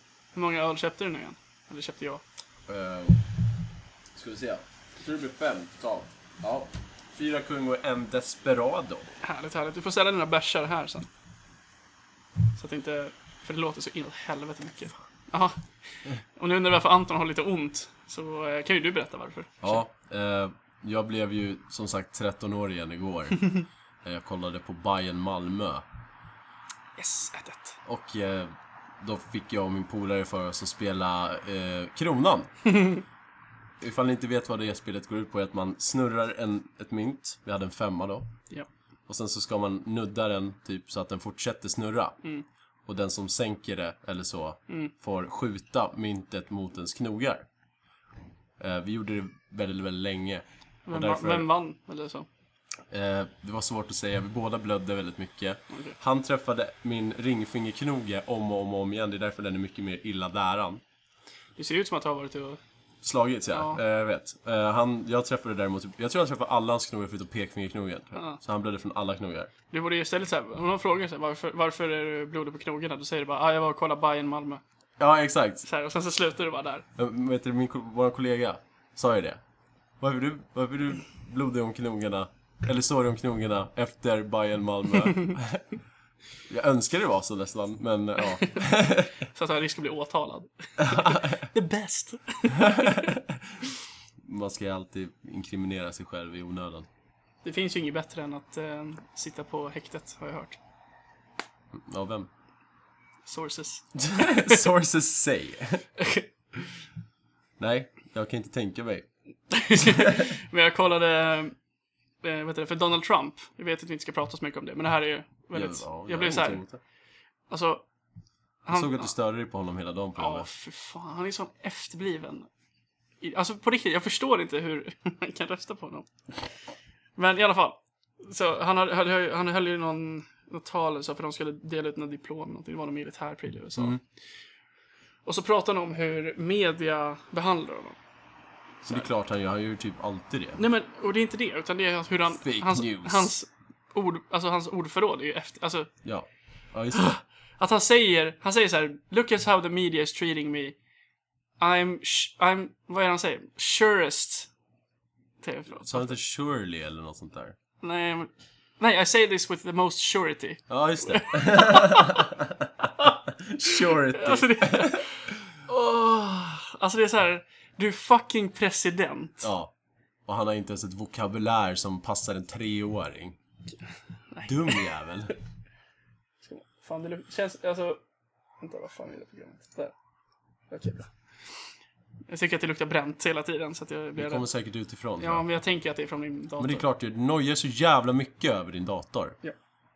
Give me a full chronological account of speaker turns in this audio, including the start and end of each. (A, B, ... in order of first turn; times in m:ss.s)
0:00.4-0:02.2 A
0:02.7-0:03.2 B
0:04.1-0:09.1 B
0:09.2-0:11.1 A
0:12.6-0:19.8 A
0:19.6-0:25.8 B
0:27.0-0:27.8 A
0:27.9-0:32.5 B
0:32.6-0:33.0 A
0:33.8-0:38.3 B
0:39.1-0:42.2 B
0:42.9-0:47.5 B
0:48.6-0:51.5 B
0:50.9-0:52.3 A
0:52.9-1:00.8 B
0:55.7-0:56.0 A
1:01.6-1:02.6 A
1:03.0-1:09.5 B
1:03.5-1:03.8 A
1:08.2-1:08.4 A
1:09.7-1:14.6 A
1:15.0-1:15.6 B
1:15.6-1:16.9 A
1:17.0-1:19.4 B
1:20.0-1:25.7 B
1:26.5-1:29.2 B
1:29.2-1:33.2 A
1:30.8-1:31.4 B
1:32.5-1:33.6 B
1:34.2-1:36.9 B
1:37.4-1:40.6 A
1:41.7-1:42.3 B
1:43.3-1:44.6 A
1:44.0-1:45.9 B
1:46.0-1:46.3 A
1:47.6-1:49.1 B
1:49.5-1:51.6 A
1:49.7-1:50.3 B
1:52.2-1:56.6 A
1:55.5-1:56.8 B
1:57.5-1:57.8 A
1:58.6-1:59.1 A
1:58.7-2:00.5 B
2:00.2-2:02.5 A
2:03.2-2:06.1 A
2:07.2-2:14.0 A
2:15.3-2:18.0 A
2:18.8-2:19.1 A
2:18.9-2:20.6 B
2:20.6-2:25.9 A
2:22.3-2:23.3 B
2:26.0-2:27.1 B
2:26.9-2:30.8 A
2:31.6-2:34.5 A
2:35.4-2:36.2 A
2:35.8-2:37.6 B
2:37.8-2:42.3 A
2:40.7-2:45.3 B
2:43.0-2:49.5 A
2:49.4-2:49.7 B
2:50.3-2:53.4 B
2:54.3-2:54.8 A
2:54.5-2:55.3 B
2:56.4-2:58.0 A
2:58.6-2:59.9 A
3:00.7-3:01.1 A
3:02.3-3:04.5 A
3:04.2-3:05.4 B
3:05.2-3:06.9 A
3:06.6-3:09.4 B